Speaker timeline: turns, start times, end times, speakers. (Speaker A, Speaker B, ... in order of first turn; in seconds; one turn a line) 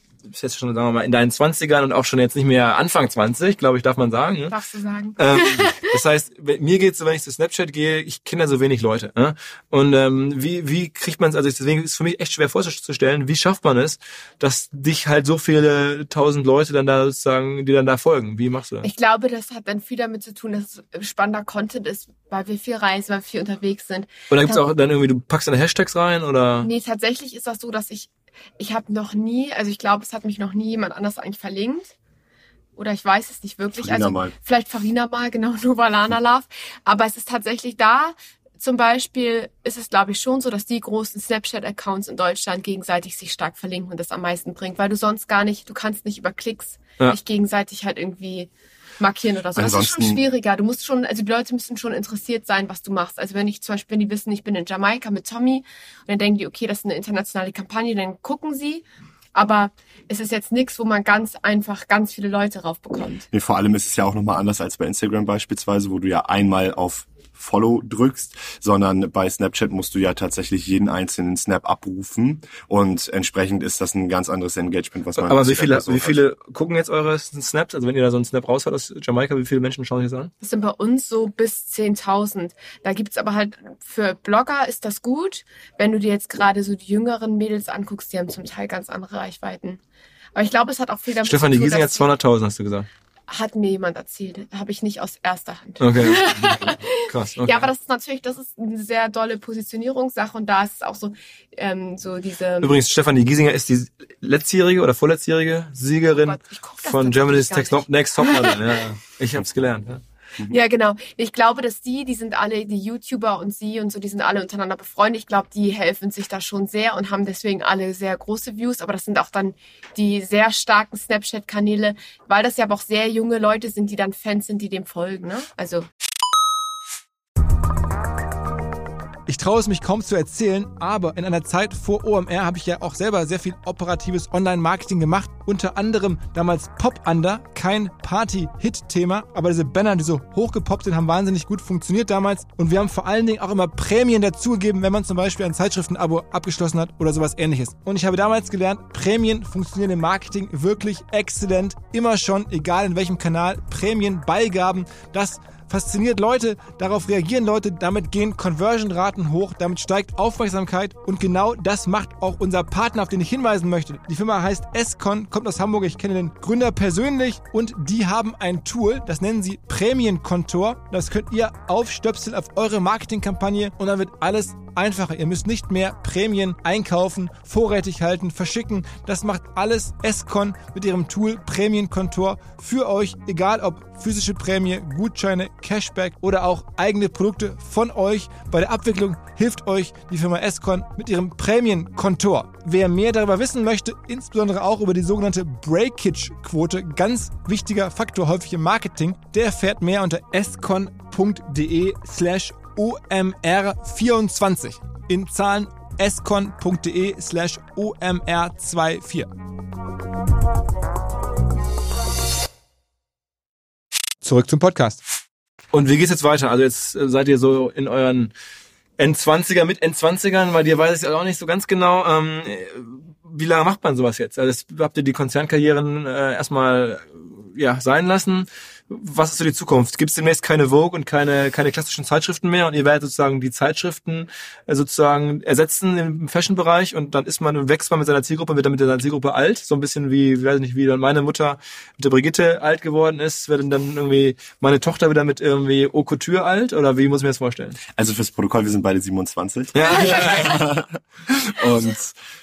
Speaker A: 0.2-4.5
Speaker B: 4.5-5.9
Speaker A: 5.2-18.9
Speaker B: 18.8-24.6
Speaker A: 24.3-26.7
Speaker B: 26.6-31.9
Speaker B: 32.8-48.5
Speaker C: 33.8-34.3
Speaker B: 49.0-58.8
Speaker C: 49.6-50.2
Speaker B: 59.4-63.3
Speaker C: 63.3-76.2
Speaker A: 75.2-80.3
Speaker B: 80.4-89.8
Speaker B: 90.3-92.1
Speaker A: 91.2-92.9
Speaker B: 93.3-102.7
Speaker A: 95.8-97.7
Speaker A: 102.6-110.0
Speaker B: 106.1-108.6
Speaker B: 110.5-125.8
Speaker A: 129.3-209.3
Speaker A: 214.2-215.0
Speaker A: 215.7-218.3
Speaker A: 219.0-247.8
Speaker C: 247.9-252.2
Speaker A: 249.7-250.6